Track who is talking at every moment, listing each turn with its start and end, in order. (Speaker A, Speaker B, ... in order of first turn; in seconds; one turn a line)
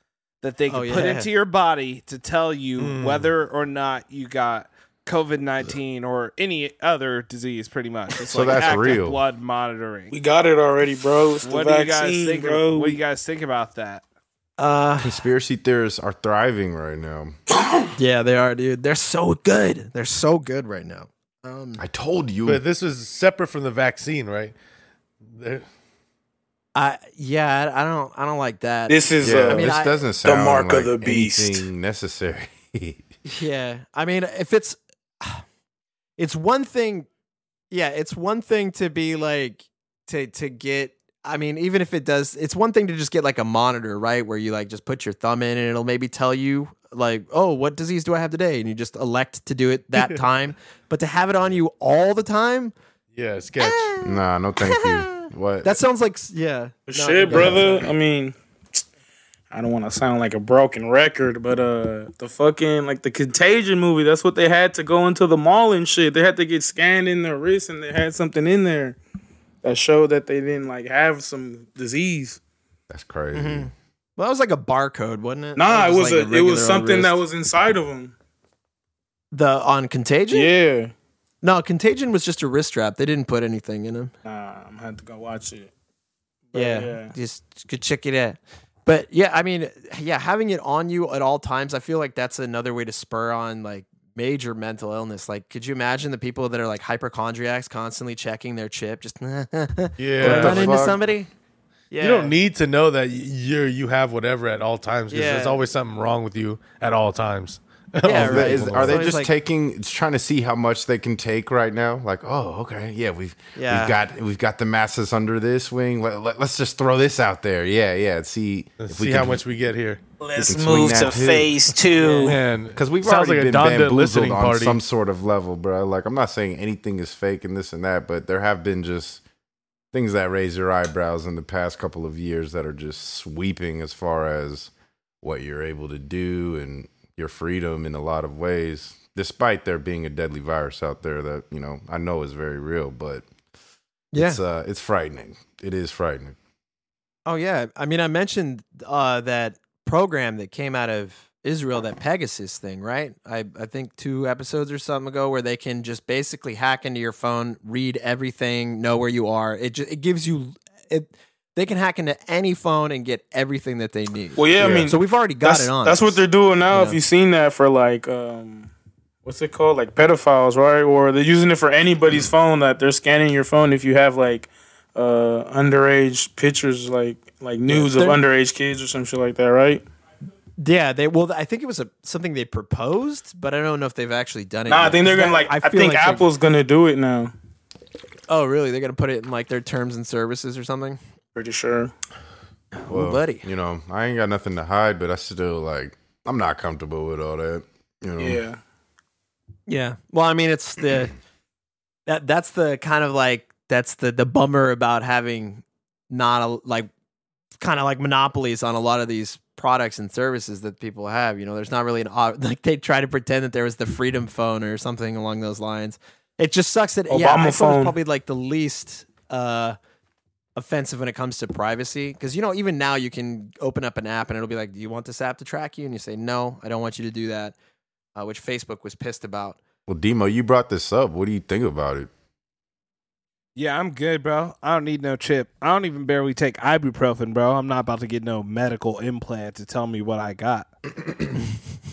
Speaker A: 0.4-10.1
Speaker B: 0.7-1.3
Speaker C: 2.8-3.3
Speaker D: 8.3-9.2
Speaker E: 10.1-13.0
Speaker A: 11.4-14.0
Speaker B: 14.6-15.2
Speaker D: 15.0-17.3
Speaker B: 17.9-21.8
Speaker D: 21.8-22.6
Speaker C: 22.4-24.5
Speaker C: 25.3-25.6
Speaker B: 26.7-29.9
Speaker E: 28.9-29.7
Speaker D: 29.2-33.0
Speaker E: 30.2-31.6
Speaker B: 33.2-35.4
Speaker B: 36.2-37.1
Speaker B: 37.7-52.7
Speaker C: 50.0-50.2
Speaker C: 53.1-53.9
Speaker B: 53.6-54.0
Speaker D: 54.0-55.8
Speaker B: 54.6-57.9
Speaker E: 56.9-58.8
Speaker D: 57.3-57.6
Speaker E: 59.5-69.0
Speaker E: 69.6-72.4
Speaker D: 72.9-73.7
Speaker B: 73.3-77.2
Speaker E: 75.5-78.1
Speaker B: 79.3-80.5
Speaker E: 80.3-80.9
Speaker B: 81.4-84.1
Speaker E: 84.2-85.7
Speaker E: 86.5-87.1
Speaker B: 86.5-101.3
Speaker C: 100.0-100.9
Speaker D: 100.2-101.0
Speaker B: 101.9-102.3
Speaker C: 102.0-109.1
Speaker B: 105.1-105.6
Speaker B: 108.0-109.3
Speaker D: 108.1-119.4
Speaker B: 113.5-114.0
Speaker C: 118.8-120.0
Speaker E: 120.2-122.4
Speaker D: 120.3-121.5
Speaker B: 121.8-122.4
Speaker C: 122.2-124.8
Speaker D: 122.7-129.2
Speaker D: 129.9-134.7
Speaker D: 135.2-143.2
Speaker B: 144.1-144.4
Speaker D: 144.2-146.3
Speaker B: 147.2-167.0
Speaker E: 164.4-168.7
Speaker D: 164.6-164.9
Speaker E: 169.2-179.8
Speaker B: 177.7-178.2
Speaker B: 180.6-186.3
Speaker E: 184.7-187.3
Speaker B: 188.3-191.0
Speaker E: 191.3-191.9
Speaker B: 192.8-193.4
Speaker D: 192.9-198.4
Speaker E: 198.2-198.6
Speaker B: 199.7-201.1
Speaker B: 202.1-206.9
Speaker B: 207.6-219.8
Speaker E: 217.1-217.9
Speaker B: 220.6-227.5
Speaker B: 228.2-229.6
Speaker D: 229.9-232.1
Speaker A: 233.6-240.7
Speaker D: 240.9-241.3